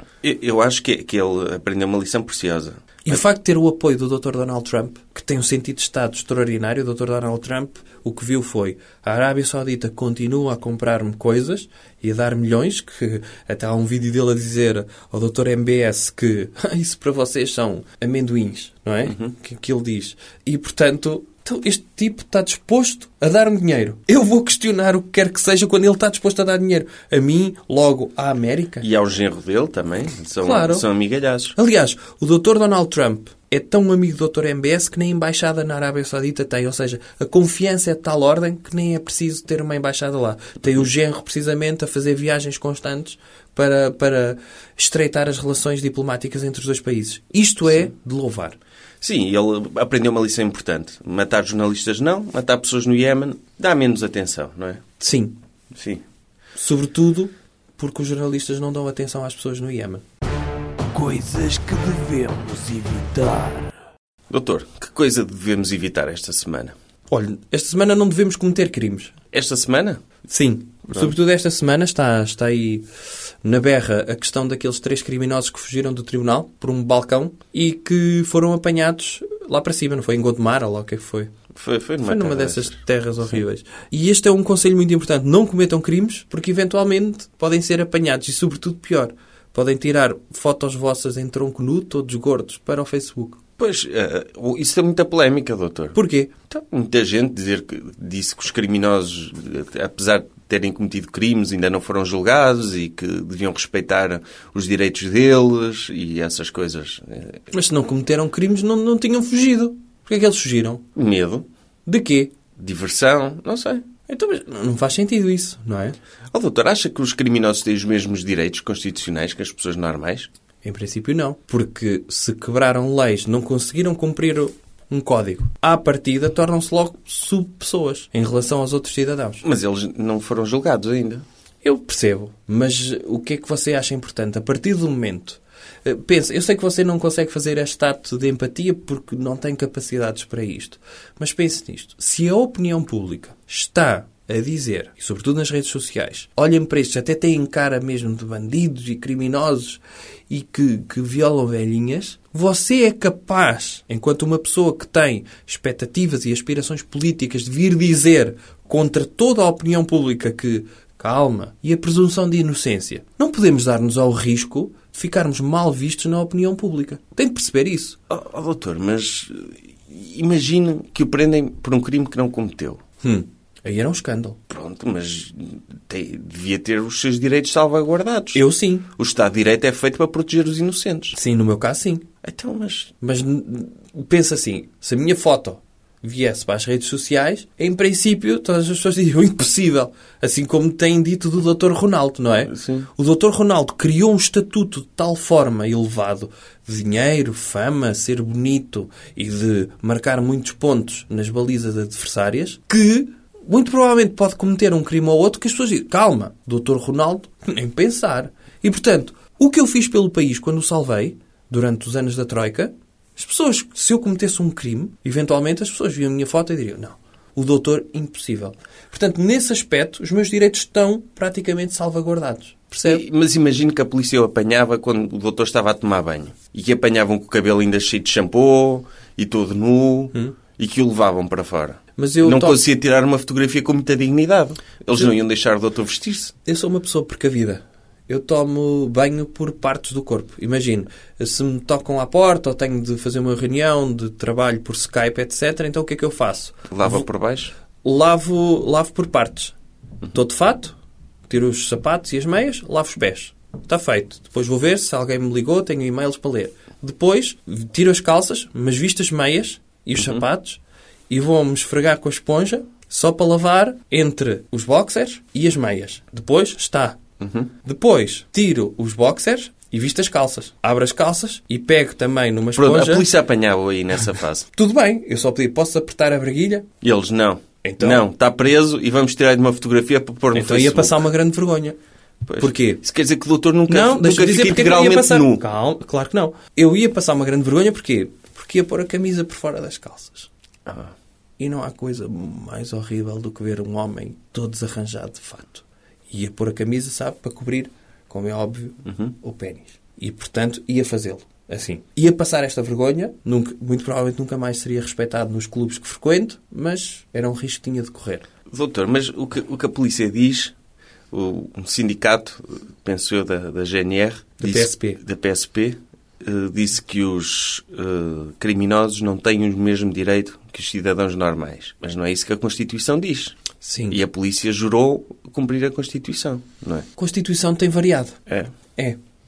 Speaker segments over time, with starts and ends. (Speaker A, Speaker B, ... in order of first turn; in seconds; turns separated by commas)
Speaker A: 0.2-3.2, Speaker B: 3.0-28.9, Speaker A: 28.8-31.6, Speaker B: 30.4-30.9, Speaker B: 31.6-48.6, Speaker A: 49.0-54.8, Speaker B: 55.0-55.4, Speaker A: 55.7-56.0, Speaker B: 56.6-60.0, Speaker B: 61.0-63.7, Speaker A: 64.3-66.7, Speaker B: 67.1-69.1, Speaker A: 69.3-70.0, Speaker B: 70.3-72.8, Speaker B: 73.4-81.3, Speaker A: 81.5-82.8, Speaker B: 82.0-93.4, Speaker A: 93.6-96.0, Speaker B: 95.9-96.3, Speaker A: 96.5-107.4, Speaker B: 107.5-110.8, Speaker A: 111.0-111.5, Speaker B: 111.9-112.3, Speaker A: 112.6-113.9, Speaker B: 114.1-116.0, Speaker A: 116.3-120.3, Speaker B: 120.6-129.4, Speaker A: 129.4-131.2, Speaker B: 131.6-168.0, Speaker A: 168.1-172.8, Speaker B: 173.0-174.4, Speaker A: 174.5-178.4, Speaker B: 178.3-178.9, Speaker A: 178.9-181.2, Speaker B: 181.1-182.1, Speaker A: 182.2-182.9, Speaker B: 183.0-223.0, Speaker A: 192.5-192.9, Speaker A: 222.8-236.3, Speaker B: 232.0-232.6, Speaker B: 236.5-247.1, Speaker A: 246.7-247.5, Speaker B: 247.8-249.6, Speaker B: 250.1-250.8, Speaker B: 251.3-267.0, Speaker A: 267.2-267.5, Speaker B: 267.6-273.1, Speaker A: 272.6-274.5, Speaker B: 274.5-276.7, Speaker A: 276.8-281.0, Speaker B: 277.6-278.1, Speaker B: 280.3-281.8, Speaker A: 282.2-285.4, Speaker B: 282.4-282.8, Speaker B: 283.7-290.3, Speaker A: 290.7-290.9, Speaker B: 291.4-308.3, Speaker A: 298.9-299.1, Speaker A: 308.5-310.6, Speaker A: 311.1-323.4, Speaker B: 314.4-315.0, Speaker B: 323.6-324.0, Speaker A: 323.9-326.9, Speaker B: 327.0-328.2, Speaker A: 328.3-328.5